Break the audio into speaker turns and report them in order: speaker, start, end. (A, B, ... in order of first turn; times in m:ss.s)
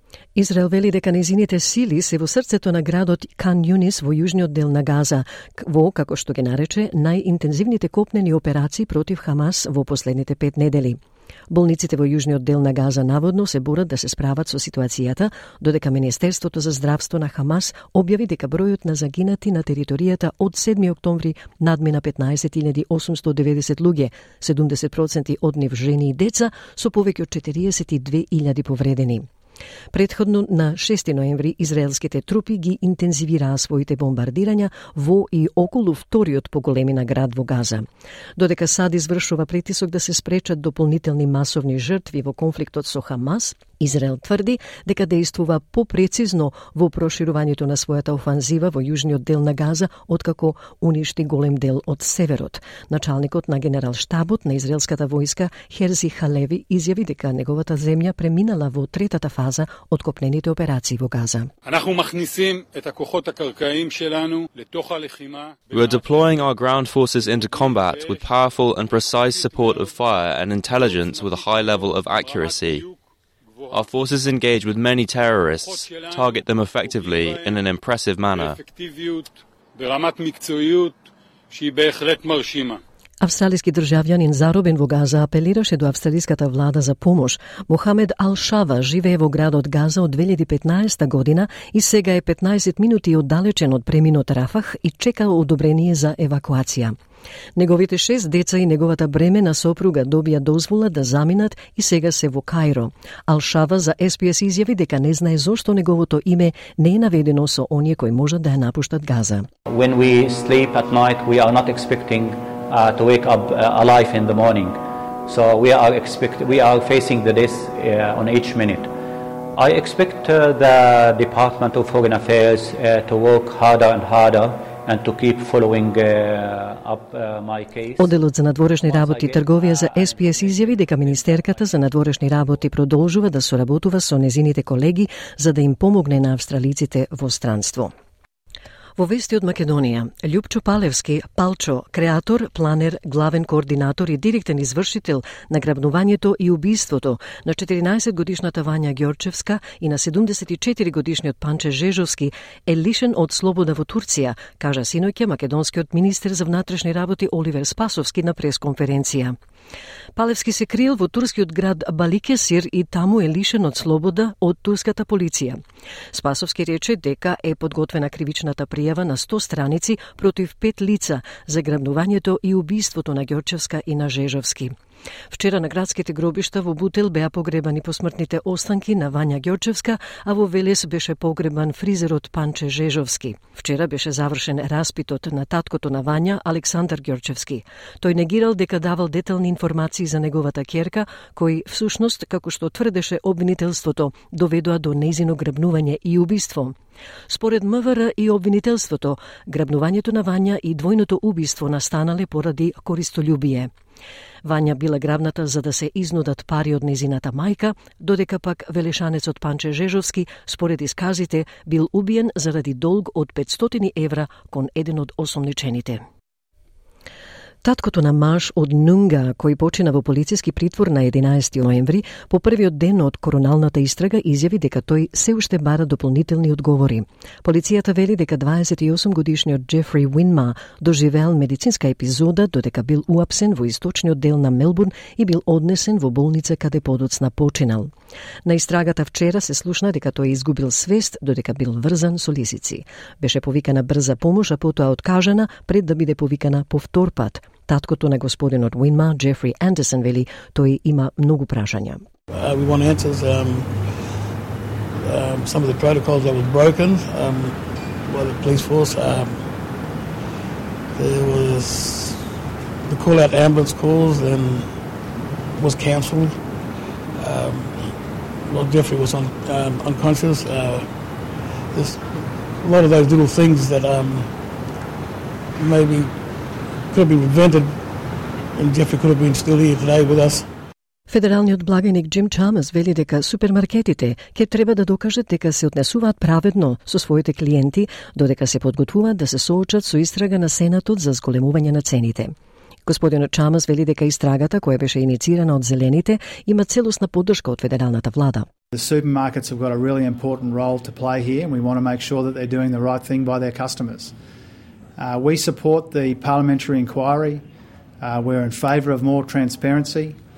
0:00.3-0:11.0 A
0:11.5-0:29.2 A
0:29.9-0:37.8 A
0:38.4-1:01.5 A
1:01.6-1:06.2 B
1:05.7-1:12.9 C
1:07.6-1:08.2 B
1:09.3-1:09.9 B
1:10.7-1:12.8 B
1:13.6-1:13.8 B
1:13.7-1:18.6 C
1:15.7-1:16.4 B
1:16.9-1:17.6 B
1:18.4-1:21.0 B
1:21.5-1:22.8 B
1:23.2-1:36.9 A
1:37.6-1:49.5 A
1:49.6-1:58.9 D
1:59.5-2:08.2 D
2:08.0-2:17.9 A
2:08.8-2:12.0 D
2:19.0-2:39.3 A
2:40.2-2:45.6 A
2:46.1-2:54.7 A
2:55.3-3:16.7 A
3:17.3-3:23.7 A
3:24.4-3:36.0 A
3:37.6-3:57.9 A
3:58.4-4:12.0 A
4:12.3-4:14.2 E
4:15.0-4:19.5 E
4:20.9-4:22.2 E
4:22.8-4:24.9 E
4:25.5-4:26.6 E
4:27.1-4:34.4 E
4:35.5-4:40.5 E
4:41.1-4:52.3 A
4:52.8-4:58.5 A
4:58.7-5:04.1 B
5:05.0-5:07.4 B
5:08.0-5:10.2 B